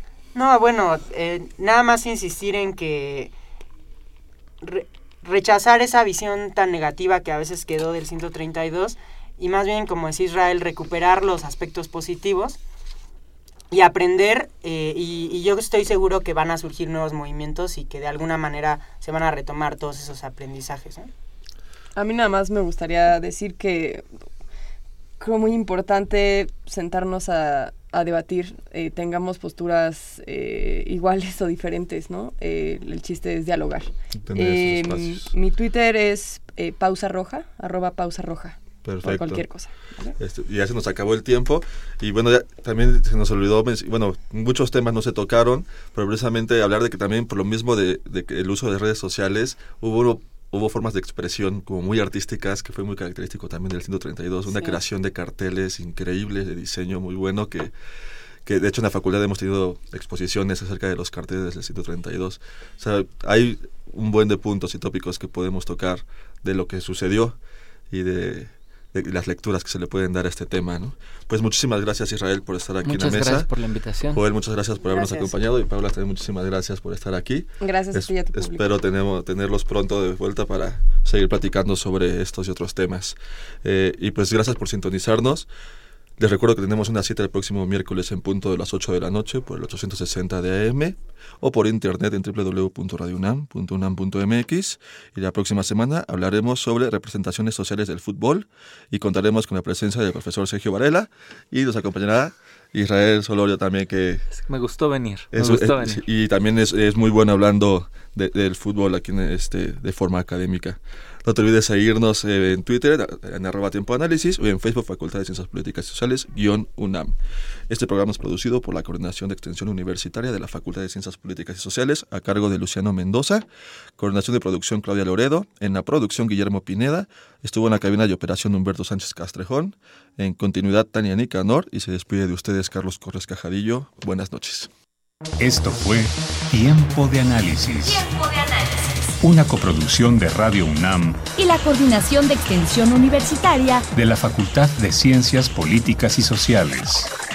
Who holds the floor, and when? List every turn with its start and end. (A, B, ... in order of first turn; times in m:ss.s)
0:00.4-0:03.3 A
0:04.6-0:12.6 A
0:13.7-0:21.1 A
0:22.0-0:24.0 B
0:25.2-0:40.2 B
0:34.2-0:35.3 C
0:38.8-0:39.4 C
0:40.2-0:57.7 C
0:58.4-1:07.4 C
1:07.9-1:13.5 C
1:12.8-1:14.2 D
1:14.1-1:25.5 C
1:14.9-1:15.4 B
1:17.6-1:18.7 B
1:26.2-1:44.2 C
1:44.3-1:46.0 D
1:45.3-1:57.2 C
1:57.7-2:03.4 C
2:04.0-2:14.7 C
2:15.4-2:18.1 E
2:18.3-2:18.6 F
2:19.2-2:21.2 E
2:21.4-2:23.9 F
2:23.9-2:27.1 E